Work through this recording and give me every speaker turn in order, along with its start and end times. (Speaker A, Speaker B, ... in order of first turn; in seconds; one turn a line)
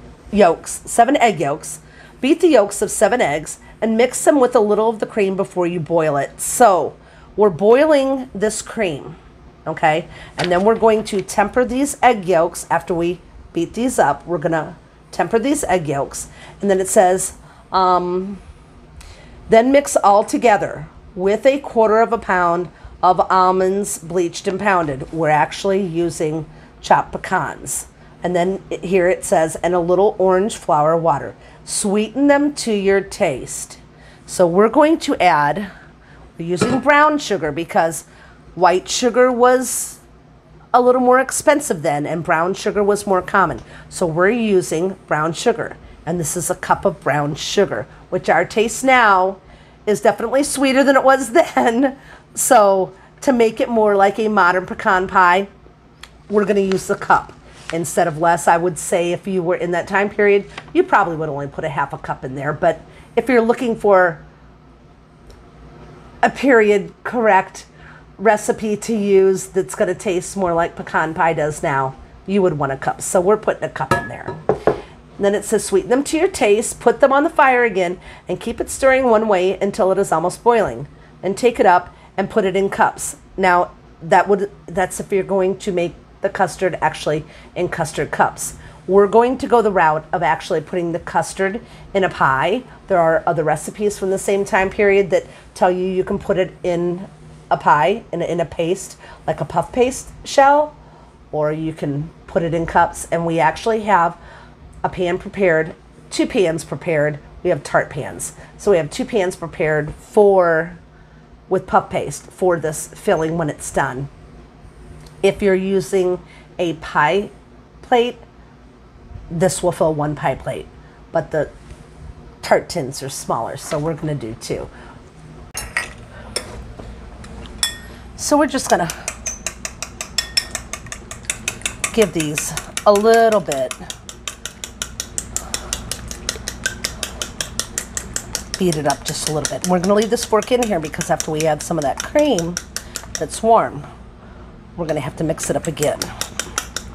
Speaker A: 0.3-18.4
Speaker A: 19.5-35.7
Speaker A: 36.4-40.0
Speaker A: 40.7-55.5
Speaker A: 56.3-64.2
Speaker A: 66.2-74.4
Speaker A: 75.2-100.7
Speaker A: 101.3-104.2
Speaker A: 104.8-110.8
Speaker A: 111.5-114.1
Speaker A: 115.2-118.2
Speaker A: 119.3-121.5
Speaker A: 122.4-124.7
Speaker A: 128.2-128.9
Speaker A: 131.9-133.8
Speaker A: 138.6-142.6
Speaker A: 143.2-143.9
Speaker A: 144.8-146.1